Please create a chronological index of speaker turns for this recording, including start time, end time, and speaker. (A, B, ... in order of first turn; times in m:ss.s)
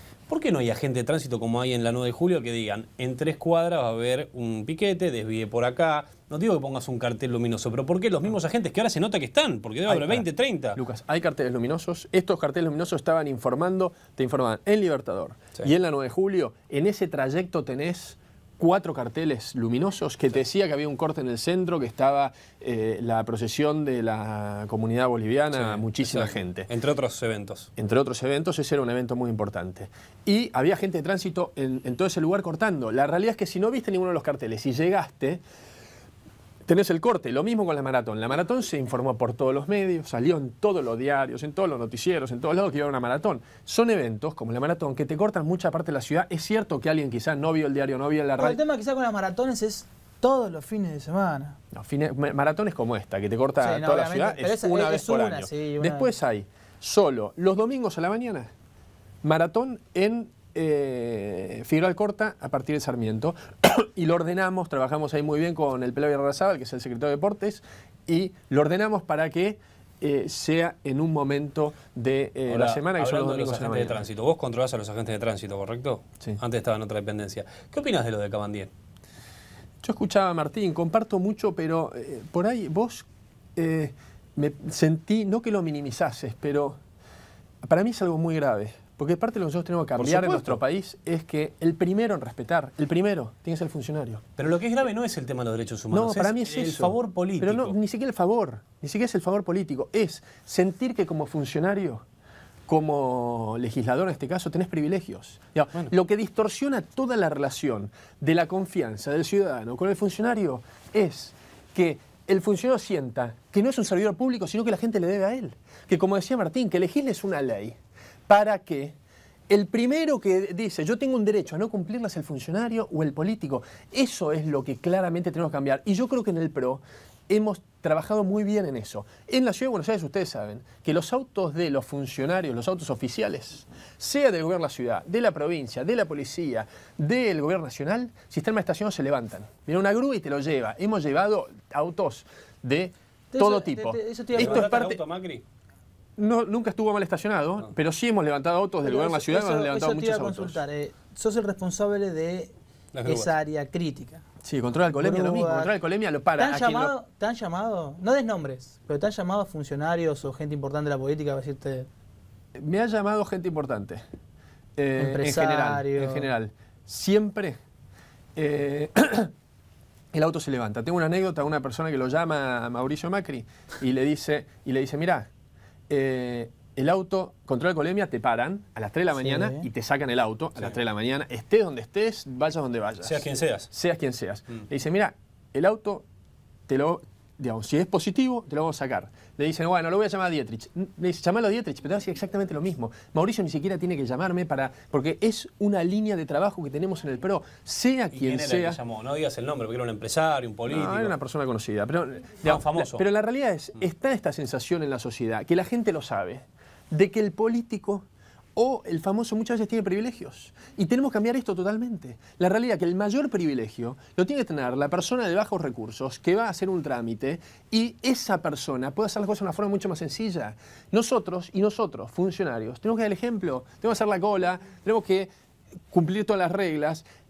0:00.3-0:10.8 A
0:09.9-0:26.7 B
0:25.5-0:27.7 A
0:27.8-0:35.4 B
0:36.6-0:48.6 B
0:48.4-0:51.6 C
0:51.7-0:58.5 B
0:53.6-0:56.1 C
0:59.2-1:14.0 B
1:12.5-1:18.7 A
1:19.8-1:26.8 B
1:27.6-1:34.2 B
1:30.0-1:30.6 A
1:34.4-1:37.7 A
1:35.9-1:42.0 B
1:42.7-1:59.0 B
1:59.5-2:25.0 B
2:23.3-2:24.8 C
2:24.4-2:25.4 A
2:26.2-2:30.6 B
2:28.8-2:32.5 C
2:32.9-2:33.3 A
2:33.0-2:34.2 C
2:34.4-2:36.9 B
2:34.9-2:35.7 C
2:36.4-2:41.9 C
2:42.6-2:44.0 B
2:44.8-2:47.6 B
2:45.0-2:46.3 C
2:48.4-2:49.3 B
2:50.1-2:55.3 B
2:55.9-3:06.0 B
2:59.2-2:59.6 C
3:03.0-3:03.7 A
3:06.7-3:18.8 B
3:18.1-3:21.1 A
3:20.7-3:28.0 B
3:22.4-3:23.0 A
3:28.6-3:45.3 B
3:45.9-3:47.0 B